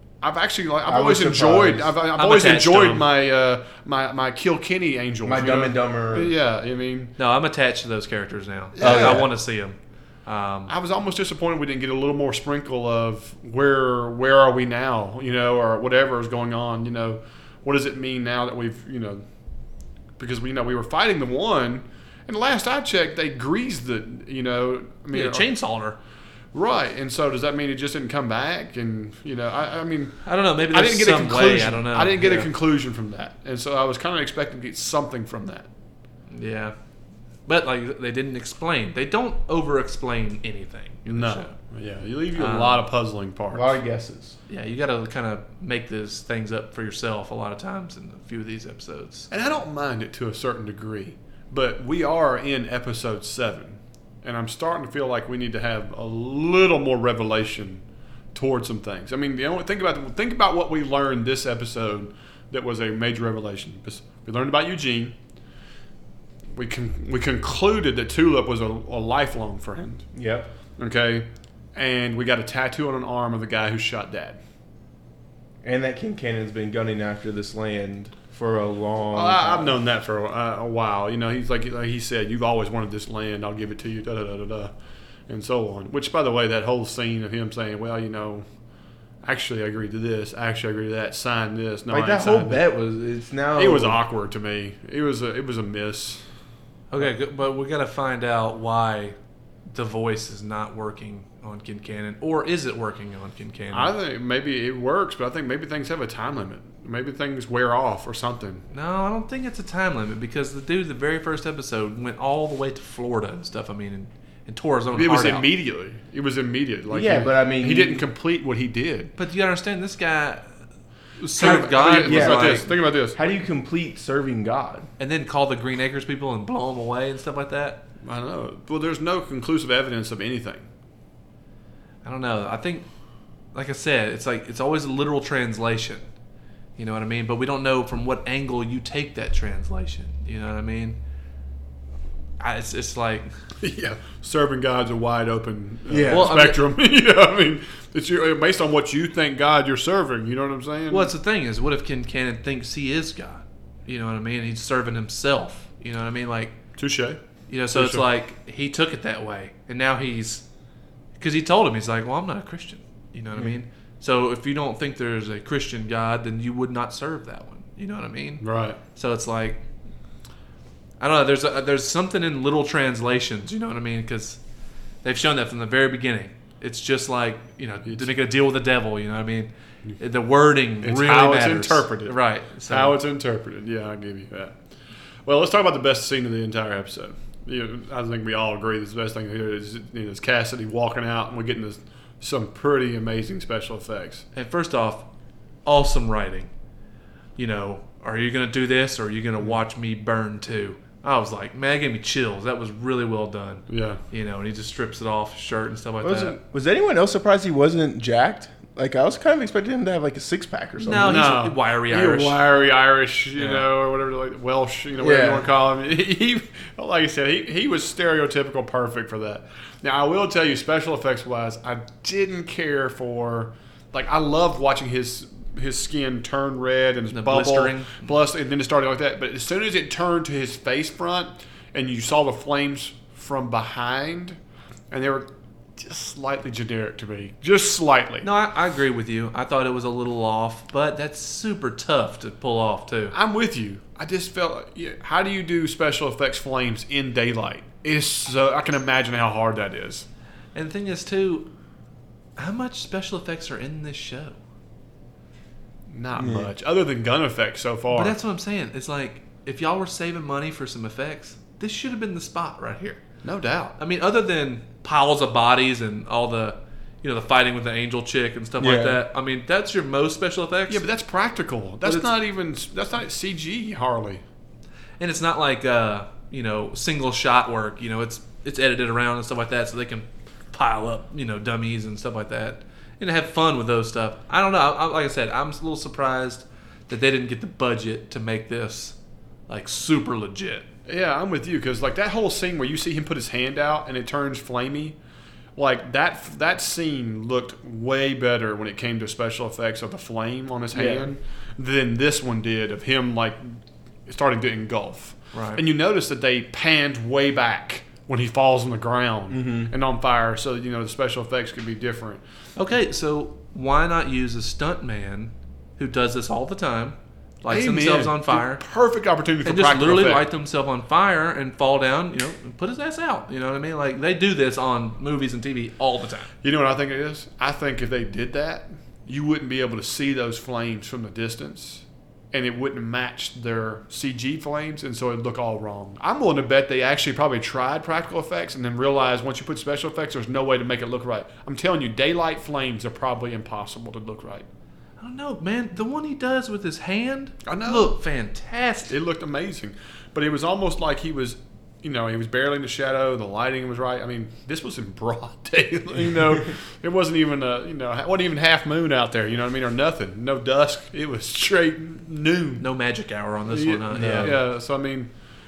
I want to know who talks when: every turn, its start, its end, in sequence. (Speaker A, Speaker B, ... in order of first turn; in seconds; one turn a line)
Speaker A: 0.2-7.2
Speaker B: 0.9-1.9
Speaker C: 2.2-3.0
Speaker B: 5.2-6.3
Speaker C: 7.2-10.7
Speaker A: 8.8-9.3
Speaker B: 8.8-9.3
Speaker A: 10.7-19.2
Speaker A: 20.2-25.5
Speaker C: 25.1-26.0
Speaker A: 26.5-35.7
Speaker C: 30.2-32.5
Speaker C: 36.3-36.8
Speaker C: 37.5-41.5
Speaker A: 41.1-43.7
Speaker C: 42.4-42.8
Speaker B: 43.5-44.4
Speaker C: 44.5-49.3
Speaker A: 49.3-57.8
Speaker A: 58.3-65.2
Speaker A: 66.5-70.1
Speaker B: 70.1-70.5
Speaker A: 70.8-74.4
Speaker B: 75.6-79.8
Speaker A: 79.1-84.7
Speaker A: 85.3-88.5
Speaker A: 89.2-92.6
Speaker B: 91.9-94.0
Speaker A: 93.6-96.2
Speaker C: 96.9-99.2
Speaker C: 99.7-104.0
Speaker A: 103.7-108.7
Speaker C: 108.7-115.5
Speaker A: 114.9-119.1
Speaker B: 116.9-118.0
Speaker C: 119.2-120.5
Speaker C: 121.2-122.7
Speaker A: 121.4-123.2
Speaker B: 121.4-124.9
Speaker C: 125.0-127.8
Speaker A: 128.0-130.7
Speaker C: 132.1-132.9
Speaker C: 133.5-136.1
Speaker C: 136.8-141.0
Speaker C: 142.4-143.3
Speaker A: 143.6-151.1
Speaker B: 145.9-146.4
Speaker C: 146.1-146.6
Speaker C: 150.9-156.6
Speaker A: 156.8-157.2
Speaker C: 157.5-160.4
Speaker A: 157.7-158.1
Speaker C: 161.2-168.4
Speaker A: 168.4-168.8
Speaker C: 168.9-169.6
Speaker C: 171.0-174.4
Speaker C: 175.0-183.0
Speaker A: 180.8-182.2
Speaker A: 182.7-184.5
Speaker A: 185.3-194.2
Speaker C: 194.3-195.1
Speaker C: 195.7-196.5
Speaker C: 197.4-206.4
Speaker A: 203.7-204.0
Speaker B: 206.0-211.3
Speaker C: 210.8-212.4
Speaker A: 211.0-234.4
Speaker C: 213.4-213.7
Speaker B: 215.0-215.5
Speaker C: 227.1-228.1
Speaker A: 234.9-238.3
Speaker C: 238.2-243.2
Speaker A: 243.1-250.1
Speaker C: 250.6-251.5
Speaker C: 252.4-254.4
Speaker A: 255.9-258.2
Speaker B: 256.2-256.5
Speaker C: 257.9-263.0
Speaker A: 263.2-263.8
Speaker C: 263.8-270.8
Speaker B: 268.6-269.0
Speaker A: 270.7-274.2
Speaker C: 275.0-289.0
Speaker C: 289.5-290.7
Speaker A: 290.9-295.0
Speaker A: 295.6-312.2
Speaker B: 300.7-301.1
Speaker C: 305.3-305.6
Speaker B: 309.3-309.7
Speaker C: 312.6-318.6
Speaker A: 317.5-320.3
Speaker C: 319.4-326.3
Speaker A: 326.4-344.5
Speaker C: 345.0-349.0
Speaker A: 347.5-347.9
Speaker A: 348.9-362.6
Speaker C: 362.6-364.4
Speaker A: 363.5-365.1
Speaker B: 363.9-364.4